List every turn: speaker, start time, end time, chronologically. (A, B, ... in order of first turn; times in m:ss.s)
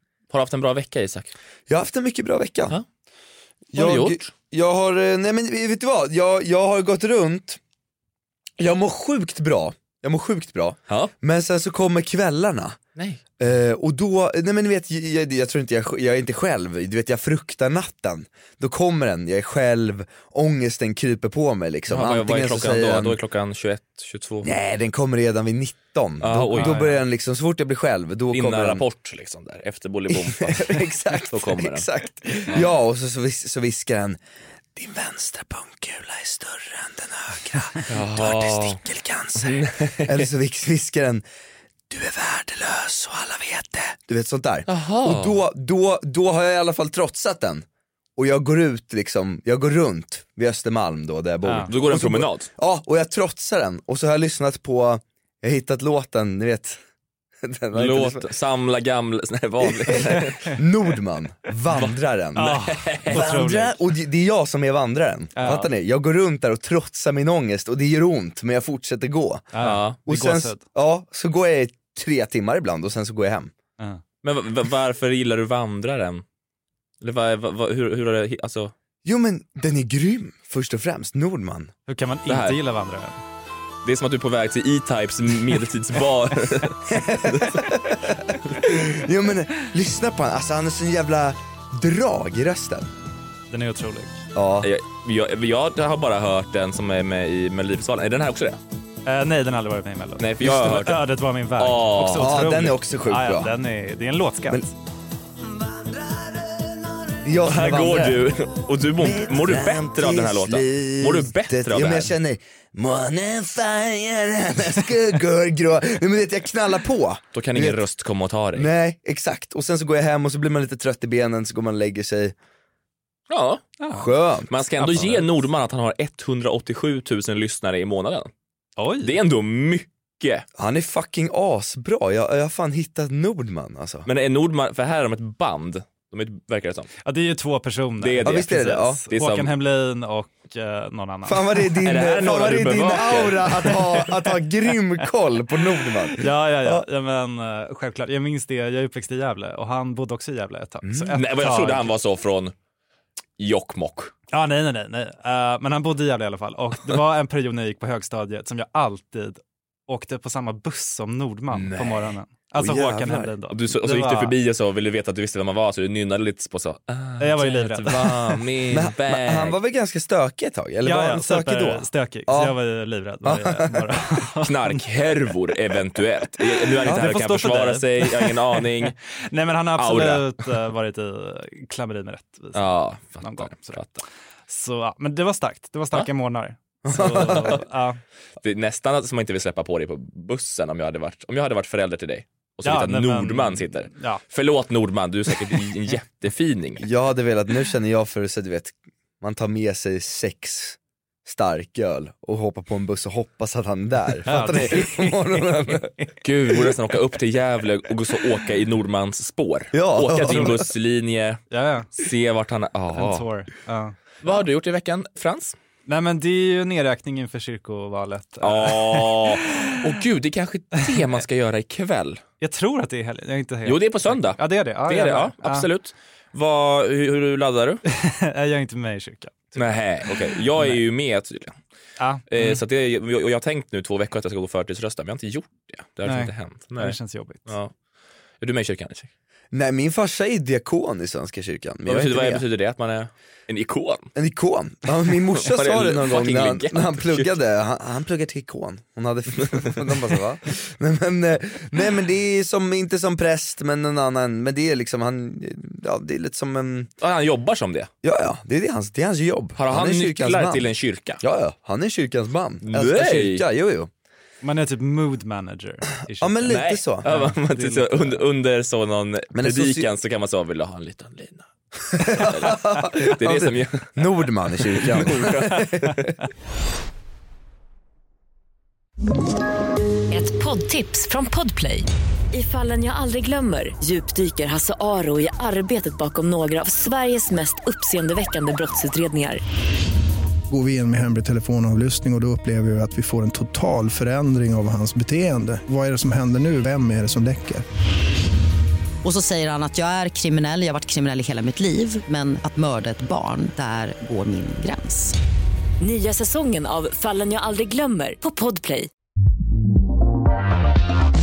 0:00.3-0:01.3 A
0:01.7-0:02.8 B
0:03.7-0:07.6 B
0:03.8-0:04.3 A
0:08.6-0:12.8 B
0:13.4-0:23.2 B
0:21.9-0:24.5 A
0:24.4-0:28.8 B
0:26.2-0:26.8 A
0:26.6-0:27.0 C
0:28.3-0:31.9 A
0:30.1-0:34.2 B
0:34.8-0:41.2 B
0:37.9-0:38.8 A
0:39.4-0:40.3 A
0:41.9-0:47.6 B
0:44.7-0:45.4 A
0:48.2-0:56.8 B
0:51.4-0:51.7 C
0:51.7-0:52.5 A
0:57.4-0:58.3 B
0:57.7-1:00.4 A
0:59.7-1:09.5 B
1:02.4-1:03.8 C
1:02.4-1:03.3 A
1:05.4-1:05.7 C
1:09.5-1:10.6 C
1:09.6-1:10.0 A
1:10.1-1:13.5 B
1:14.2-1:16.2 A
1:17.0-1:18.7 A
1:19.0-1:21.7 B
1:21.9-1:23.2 C
1:22.3-1:22.6 A
1:23.8-1:27.7 A
1:26.9-1:32.9 B
1:33.5-1:34.2 C
1:34.3-1:34.7 B
1:34.6-1:38.6 A
1:39.1-1:44.7 C
1:40.2-1:41.0 A
1:41.6-1:42.3 A
1:42.0-1:43.5 B
1:47.2-1:48.2 B
1:47.4-1:52.1 A
1:49.0-1:57.8 B
1:57.3-1:58.7 A
1:58.6-2:02.4 B
2:03.3-2:03.7 A
2:03.8-2:04.1 C
2:03.9-2:05.1 B
2:04.5-2:08.3 A
2:08.8-2:09.1 C
2:09.0-2:10.4 A
2:10.6-2:14.1 B
2:14.1-2:16.9 A
2:17.0-2:21.7 C
2:18.0-2:18.5 A
2:18.2-2:19.0 B
2:19.1-2:19.5 A
2:21.3-2:26.8 B
2:21.8-2:23.5 A
2:26.1-2:31.9 C
2:30.9-2:31.1 B
2:31.1-2:32.5 A
2:33.4-2:34.1 A
2:34.3-2:44.3 C
2:42.6-2:43.3 B
2:43.5-2:49.6 A
2:47.2-2:48.2 C
2:48.7-2:52.6 B
2:50.8-2:54.8 C
2:53.2-2:53.9 B
2:54.4-2:58.9 A
2:56.8-3:03.9 C
2:59.8-3:00.3 A
3:02.6-3:04.0 A
3:04.5-3:08.0 C
3:06.8-3:07.6 B
3:07.2-3:07.6 A
3:08.4-3:16.8 A
3:12.6-3:14.2 C
3:16.8-3:25.9 B
3:24.3-3:26.1 C
3:26.2-3:31.4 A
3:29.7-3:30.7 B
3:31.5-3:32.0 C
3:32.0-3:33.3 A
3:32.9-3:34.1 C
3:34.2-3:35.6 A
3:35.9-3:39.8 C
3:38.4-3:42.2 A
3:42.4-3:45.7 C
3:43.7-3:47.8 A
3:47.9-3:50.8 C
3:49.6-3:51.6 A
3:52.0-3:52.6 C
3:52.3-3:57.0 A
3:56.0-3:57.5 C
3:57.5-3:57.7 A
3:58.4-3:59.1 A
3:59.5-4:02.4 B
4:01.9-4:04.1 A
4:04.2-4:16.9 B
4:05.3-4:07.3 A
4:17.0-4:17.9 A
4:18.0-4:20.7 B
4:19.6-4:21.2 A
4:21.2-4:23.9 B
4:22.6-4:23.4 A
4:24.4-4:28.2 C
4:26.2-4:27.1 B
4:26.5-4:34.0 A
4:29.3-4:29.9 B
4:32.0-4:36.0 B
4:34.6-4:36.0 A
4:40.1-4:49.4 D
4:50.5-4:57.6 E
4:59.0-5:05.2 F
5:05.8-5:08.9 D